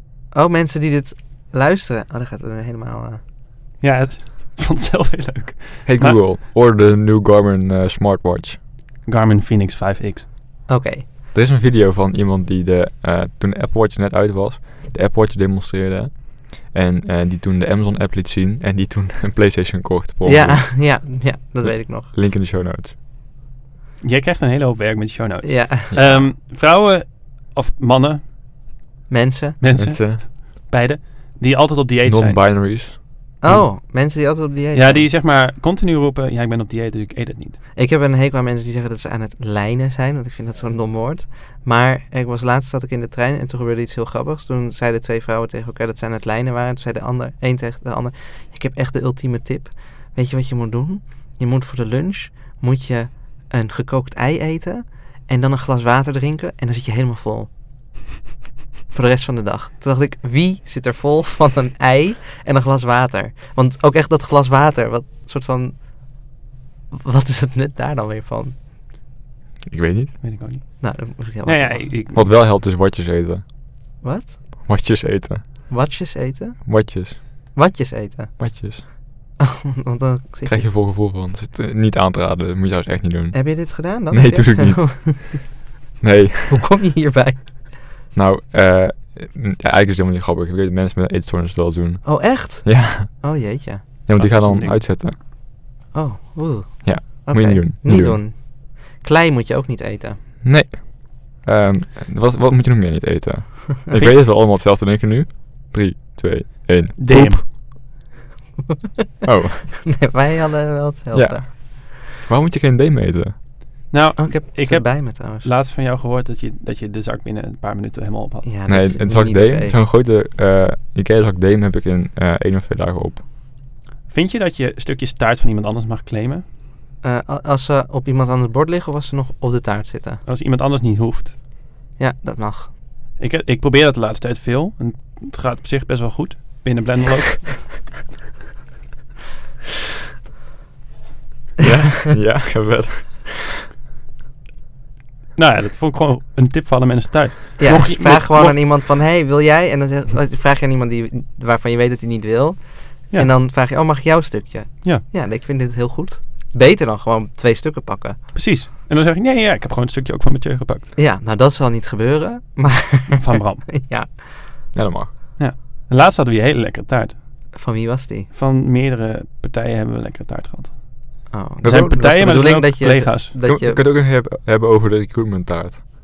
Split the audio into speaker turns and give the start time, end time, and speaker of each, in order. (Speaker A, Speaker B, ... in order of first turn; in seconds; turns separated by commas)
Speaker A: 0.3-3.2, Speaker B: 3.8-6.2, Speaker C: 5.8-8.6, Speaker B: 9.0-10.3, Speaker A: 10.7-11.0, Speaker C: 11.3-20.9, Speaker A: 20.2-22.1, Speaker C: 21.6-22.9, Speaker B: 24.0-28.3, Speaker A: 25.4-26.2, Speaker C: 25.9-26.3, Speaker A: 29.1-29.6, Speaker B: 29.6-32.5, Speaker C: 29.7-30.2, Speaker C: 32.0-33.6, Speaker A: 33.4-35.1, Speaker B: 34.7-37.6, Speaker A: 37.7-57.5, Speaker A: 58.9-66.3, Speaker A: 66.9-68.6, Speaker C: 69.7-70.2, Speaker B: 70.2-72.3, Speaker A: 70.8-71.9, Speaker C: 72.1-73.4, Speaker A: 74.0-74.4, Speaker C: 74.6-75.7, Speaker A: 75.7-80.7, Speaker C: 76.6-77.2, Speaker C: 78.4-78.8, Speaker C: 80.4-85.4, Speaker A: 83.3-85.5, Speaker C: 86.0-86.6, Speaker A: 86.5-87.7, Speaker C: 88.1-95.2, Speaker A: 92.0-93.8, Speaker B: 94.1-95.0, Speaker A: 95.9-100.2, Speaker C: 96.8-98.2, Speaker C: 100.4-107.5, Speaker B: 103.9-104.2, Speaker B: 107.0-107.4, Speaker C: 109.2-109.7, Speaker A: 109.8-111.8, Speaker C: 111.1-113.3, Speaker B: 113.9-118.5, Speaker A: 114.2-115.5, Speaker A: 118.4-119.8, Speaker C: 118.7-123.2, Speaker B: 124.1-126.4, Speaker A: 127.0-130.2, Speaker B: 130.2-131.3, Speaker A: 132.0-132.7, Speaker B: 133.2-137.9, Speaker C: 141.6-143.6, Speaker B: 145.3-148.6, Speaker A: 147.6-158.3, Speaker B: 158.3-160.9, Speaker A: 160.9-164.5, Speaker B: 163.1-163.8, Speaker C: 164.7-165.1, Speaker B: 165.4-167.2, Speaker A: 167.5-168.3, Speaker B: 168.3-173.3, Speaker A: 171.3-173.8, Speaker C: 171.6-171.9, Speaker C: 173.4-175.8